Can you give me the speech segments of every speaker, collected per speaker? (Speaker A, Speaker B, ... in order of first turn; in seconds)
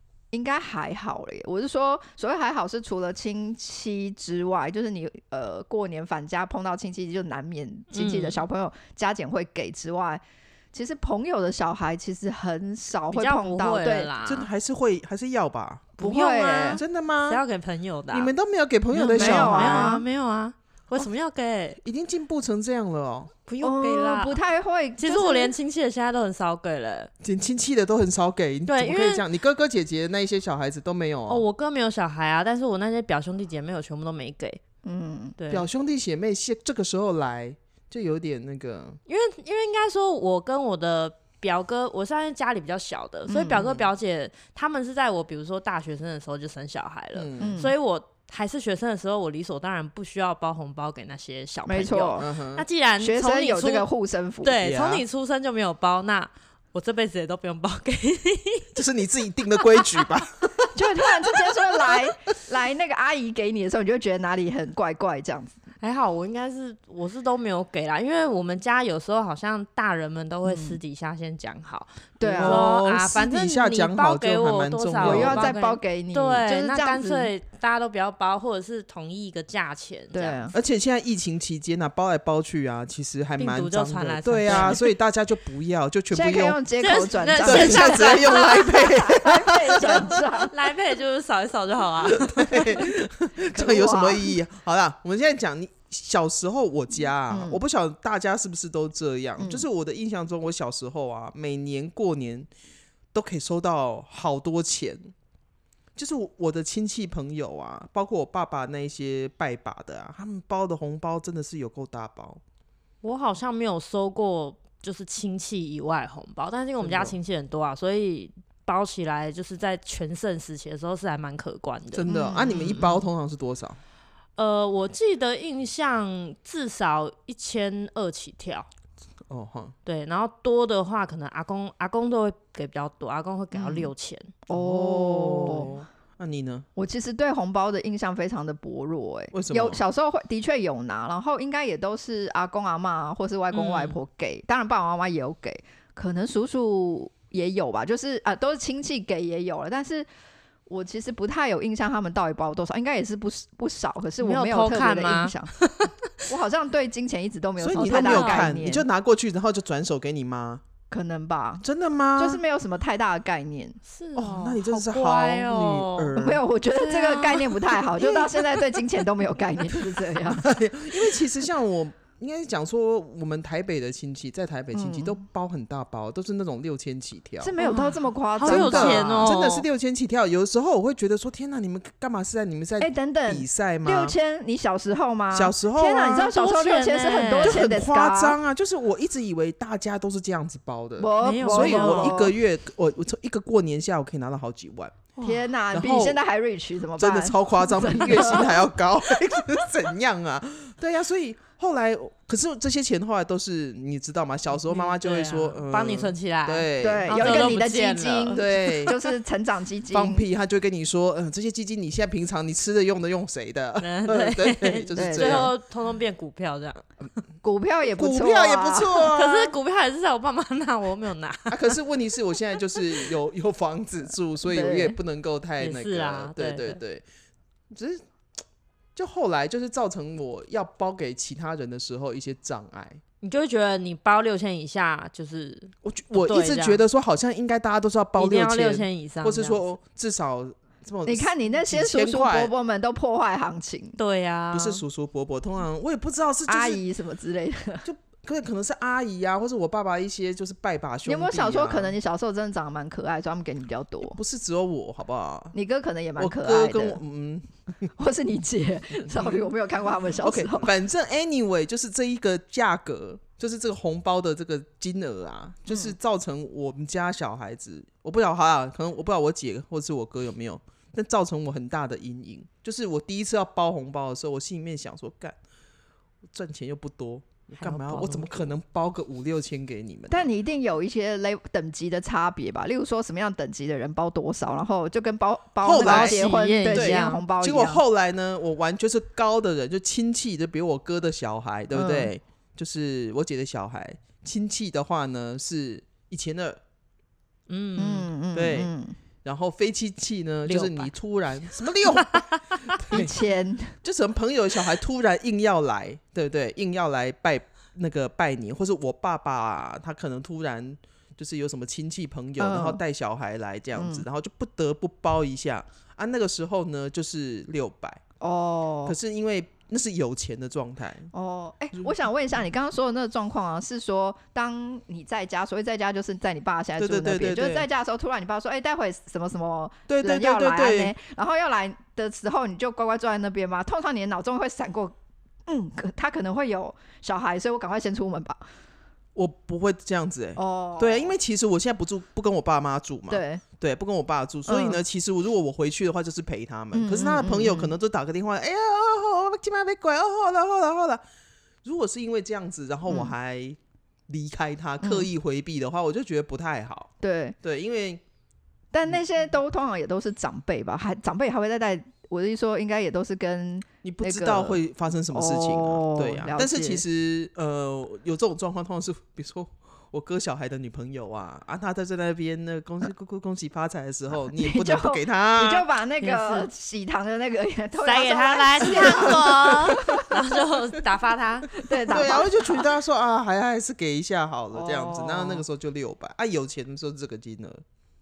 Speaker A: 0.3-14.1, 16.0-16.8, 19.2-20.0, 23.6-25.5, 34.8-35.4, 43.3-43.7, 47.4-47.7, 51.7-52.3, 53.0-54.6, 60.8-65.6, 70.4-70.8, 72.2-72.7, 75.0-77.3, 80.1-80.5, 86.1-90.5, 93.5-94.3, 97.3-97.6, 99.4-99.7, 122.1-122.9, 133.5-133.9, 134.5-135.7, 136.8-150.1, 150.7-155.5, 156.2-158.9, 160.9-161.6, 162.2-163.8, 166.2-170.5, 174.7-175.2, 177.4-179.3, 182.8-188.4, 191.0-192.3, 195.2-198.6, 206.8-210.2, 215.0-215.5, 217.4-219.1, 224.4-225.0, 241.1-244.0, 246.5-247.8, 251.1-254.2, 255.5-257.0, 258.0-260.7, 265.7-265.9, 280.1-287.8, 291.7-292.1, 297.8-298.9, 302.9-303.8, 312.4-312.8, 313.8-314.1, 318.2-318.9, 321.1-334.9, 335.5-338.4, 340.4-341.2, 343.1-343.4, 344.5-344.8, 346.7-347.7, 352.9-353.1, 354.8-355.1, 357.0-357.4, 358.7-364.6, 365.1-366.8, 374.3-380.1, 381.5-382.7, 384.5-385.4
Speaker B: 7.9-8.4, 13.1-14.5, 16.0-18.3, 18.9-21.8, 23.5-24.4, 25.0-27.1, 28.7-29.2, 31.3-34.6, 35.4-35.7, 39.1-53.9, 54.4-58.7, 65.8-80.4, 83.4-84.8, 86.8-88.9, 90.5-92.9, 113.0-122.1, 124.4-128.7, 129.9-134.3, 143.5-144.0, 154.2-156.1, 157.8-158.5, 163.9-166.2, 166.7-167.8, 177.6-179.7, 186.2-187.6, 191.2-192.2, 204.7-208.5, 213.8-216.8, 219.1-221.8, 225.6-226.8, 233.2-236.8, 238.2-239.6, 244.0-244.8, 277.6-278.5, 285.8-287.2, 297.5-298.1, 300.5-300.9, 302.0-302.8, 376.0-376.5, 377.8-382.0
Speaker C: 14.2-16.0, 16.7-17.4, 18.1-20.0, 21.8-23.3, 27.2-31.4, 35.5-39.0, 47.1-47.6, 52.2-52.7, 54.6-55.0, 58.8-60.8, 61.7-61.9, 72.4-75.5, 80.5-86.6, 87.5-90.5, 92.0-102.5, 103.1-105.1, 106.0-112.4, 116.8-117.2, 121.9-123.8, 129.3-129.7, 134.5-136.7, 139.3-139.8, 157.6-160.6, 161.6-162.4, 164.2-166.4, 169.8-177.6, 178.4-184.2, 185.3-186.3, 187.4-195.1, 195.7-196.2, 197.0-207.7, 208.3-209.0, 209.9-215.5, 217.9-219.6, 221.5-227.0, 227.7-228.0, 228.9-233.0, 235.8-242.5, 244.5-246.8, 247.8-252.0, 254.1-255.6, 256.2-257.9, 259.1-259.4, 260.2-275.4, 276.3-280.3, 285.6-296.6, 298.3-298.7, 299.2-303.1, 303.8-318.0, 318.9-321.1, 326.8-327.7, 329.9-330.9, 339.1-351.0, 351.6-356.9, 357.4-358.0, 363.8-375.7, 378.6-380.0, 381.9-387.6